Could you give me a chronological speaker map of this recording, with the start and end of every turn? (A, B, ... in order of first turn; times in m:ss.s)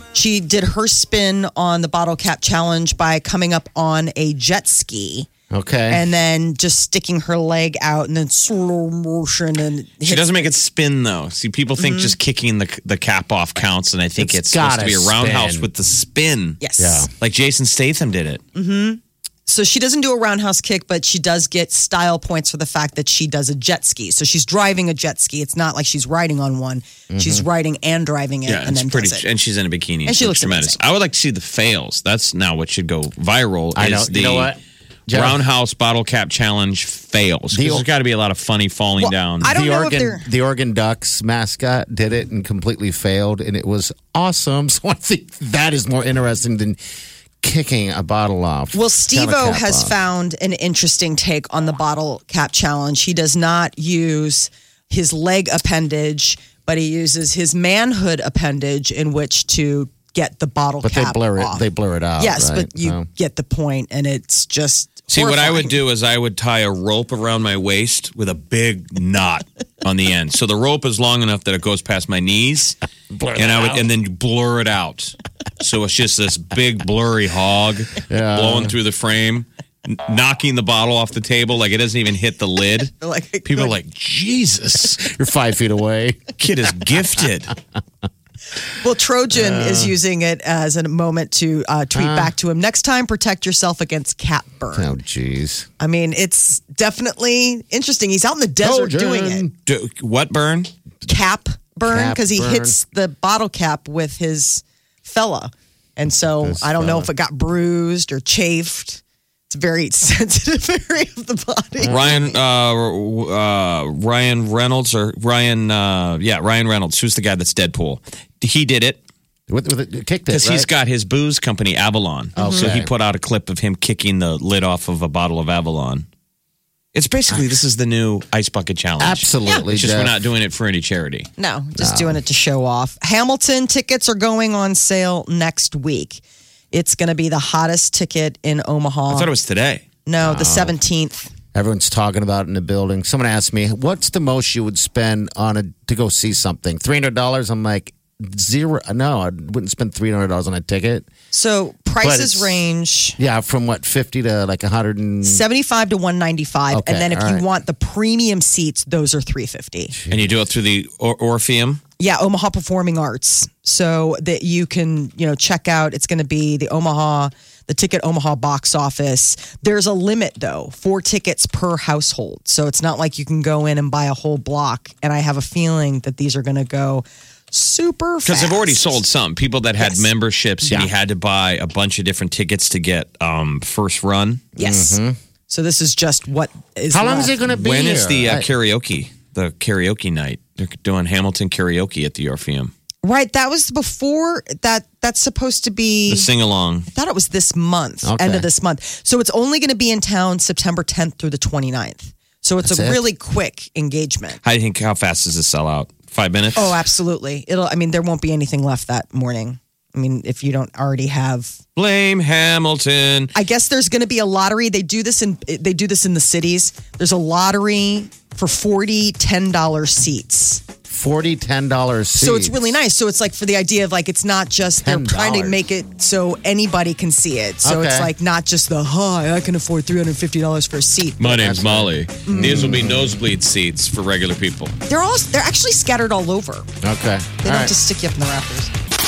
0:00.1-0:05.3 A
0:05.5-0:06.1 B
0:05.9-0:10.5 A
0:10.0-0:16.6 C
0:11.8-0:12.2 A
0:14.2-0:15.7 B
0:16.6-0:17.1 A
0:16.8-0:17.1 B
0:17.1-0:18.4 C
0:18.6-0:29.3 A
0:27.1-0:27.5 B
0:28.5-0:34.6 C
0:30.1-0:30.8 A
0:33.8-0:35.4 B
0:35.1-0:39.5 C
0:37.5-0:37.8 B
0:39.0-0:40.3 A
0:39.4-0:46.8 B
0:47.4-0:49.9 B
0:48.7-1:01.7 A
1:00.8-1:03.1 B
1:02.2-1:05.8 A
1:05.1-1:12.8 C
1:13.1-1:13.8 B
1:13.4-1:22.9 C
1:18.1-1:18.7 B
1:23.0-1:23.8 A
1:23.4-1:25.0 C
1:24.7-1:26.3 B
1:26.4-1:27.5 C
1:28.8-1:34.9 A
1:29.3-1:30.0 B
1:31.9-1:32.3 B
1:34.7-1:35.7 B
1:35.8-1:39.5 A
1:38.6-1:39.5 B
1:39.7-1:40.7 C
1:41.0-1:52.4 A
1:41.8-1:42.8 B
1:46.4-1:47.1 B
1:51.9-1:59.0 C
1:59.5-2:00.7 B
2:00.3-2:06.1 C
2:02.4-2:02.9 B
2:02.4-2:02.7 A
2:06.9-2:11.3 C
2:09.0-2:10.2 B
2:11.4-2:19.3 A
2:11.8-2:12.2 B
2:19.1-2:19.8 C
2:20.1-2:21.3 A
2:20.2-2:20.8 B
2:21.5-2:31.1 B
2:31.3-2:33.2 A
2:32.0-2:32.6 B
2:33.2-2:35.4 B
2:35.2-2:39.9 A
2:36.7-2:37.5 B
2:39.9-2:40.3 B
2:40.1-2:41.8 C
2:42.0-2:59.0 A
2:58.2-3:04.4 C
2:59.8-3:00.0 A
3:00.7-3:00.9 B
3:04.6-3:05.2 B
3:04.6-3:07.4 A
3:06.9-3:08.5 B
3:07.6-3:12.7 C
3:13.0-3:16.3 A
3:16.1-3:16.9 C
3:16.9-3:24.4 A
3:18.0-3:18.5 B
3:22.6-3:23.0 B
3:24.4-3:26.8 C
3:26.6-3:31.6 A
3:31.8-3:33.3 C
3:33.4-3:40.6 A
3:40.9-3:42.6 B
3:42.2-3:51.3 A
3:44.8-3:45.6 B
3:47.6-3:48.1 B
3:51.2-3:54.7 C
3:51.3-3:53.2 B
3:52.3-3:52.8 A
3:54.9-3:56.7 A
3:56.8-3:57.7 B
3:57.4-3:58.7 A